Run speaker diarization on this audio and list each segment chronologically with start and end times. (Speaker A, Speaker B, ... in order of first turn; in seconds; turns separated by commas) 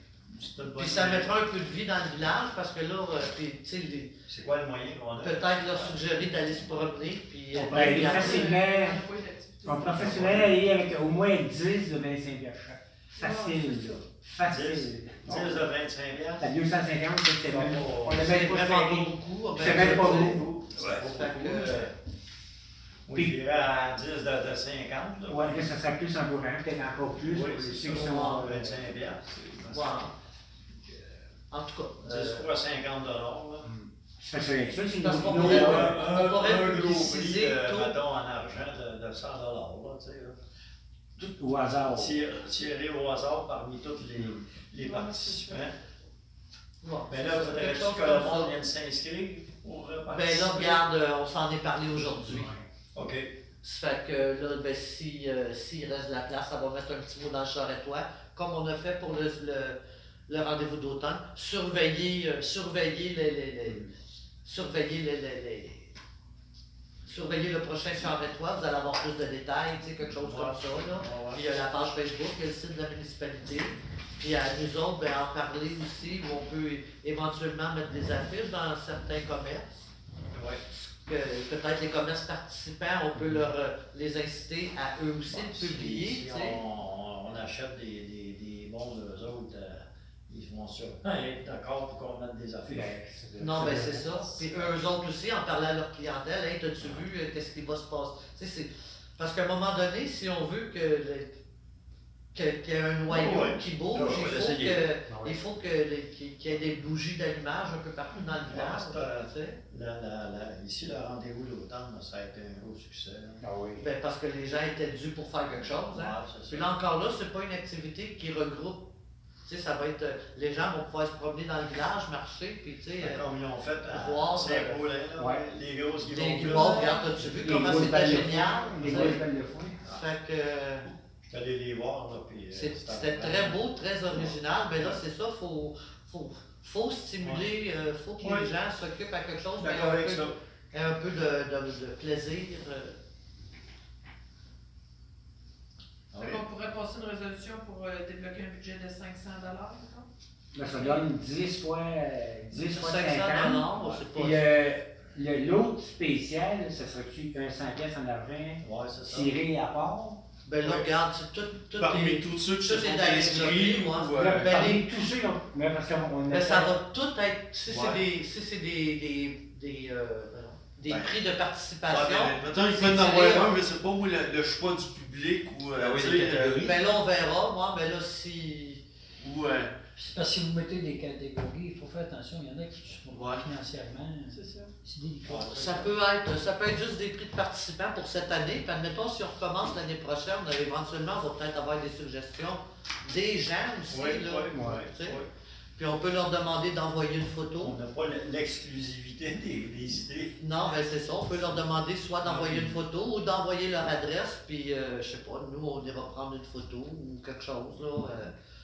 Speaker A: 0.3-1.3, Speaker B: 0.8-4.1, Speaker A: 4.3-6.1, Speaker B: 5.2-8.6, Speaker C: 7.5-9.0, Speaker D: 7.6-10.5, Speaker C: 9.7-15.7, Speaker A: 9.9-10.6, Speaker D: 13.2-14.0, Speaker A: 14.4-16.5, Speaker C: 16.4-20.5, Speaker A: 17.5-18.4, Speaker B: 18.2-21.9, Speaker A: 19.6-21.9, Speaker A: 23.1-25.7, Speaker C: 25.3-28.9, Speaker A: 27.2-30.1, Speaker B: 27.9-28.6, Speaker B: 29.7-30.1, Speaker B: 31.5-32.5, Speaker A: 32.0-33.7, Speaker C: 33.6-36.0, Speaker B: 35.0-37.9, Speaker A: 35.3-40.4, Speaker C: 41.2-42.2, Speaker A: 41.9-45.8, Speaker B: 46.8-48.6, Speaker A: 47.1-50.8, Speaker B: 50.1-52.5, Speaker C: 52.0-52.7, Speaker A: 52.9-53.3, Speaker B: 53.6-63.9, Speaker B: 64.5-65.9, Speaker B: 67.1-79.8, Speaker A: 70.2-71.4, Speaker A: 80.3-80.6, Speaker B: 80.7-86.6, Speaker C: 83.2-83.5, Speaker A: 85.3-93.0, Speaker C: 92.7-94.1, Speaker B: 93.4-101.3, Speaker A: 93.6-94.8, Speaker B: 102.3-109.6, Speaker A: 103.1-104.9, Speaker C: 105.1-105.4, Speaker A: 108.4-113.4, Speaker C: 113.4-113.9, Speaker B: 113.8-118.9, Speaker A: 115.9-116.7, Speaker B: 119.5-123.3, Speaker A: 123.0-128.0, Speaker B: 123.9-124.9, Speaker C: 125.2-125.4, Speaker B: 126.0-129.2, Speaker D: 126.5-127.1, Speaker C: 127.3-129.8, Speaker A: 128.8-129.2, Speaker B: 129.8-130.9, Speaker A: 131.2-135.0, Speaker B: 132.5-143.0, Speaker A: 137.2-137.5, Speaker A: 138.2-138.5, Speaker A: 139.6-140.4, Speaker A: 146.1-146.4, Speaker D: 146.2-150.1, Speaker C: 150.5-160.2, Speaker D: 150.6-151.0, Speaker B: 152.6-154.5, Speaker A: 153.7-154.1, Speaker A: 158.6-159.4, Speaker B: 160.5-164.9, Speaker E: 161.8-164.7, Speaker C: 164.2-166.7, Speaker B: 166.3-173.6, Speaker E: 167.6-168.1, Speaker E: 170.9-171.2, Speaker E: 171.9-176.7, Speaker A: 175.8-176.6, Speaker B: 176.6-178.8, Speaker E: 179.2-179.7, Speaker F: 180.0-185.7, Speaker E: 183.1-183.5, Speaker A: 185.2-185.9, Speaker B: 185.5-195.2, Speaker A: 193.9-195.3, Speaker C: 194.5-194.9, Speaker B: 195.8-197.8, Speaker A: 197.6-200.4, Speaker B: 200.4-208.3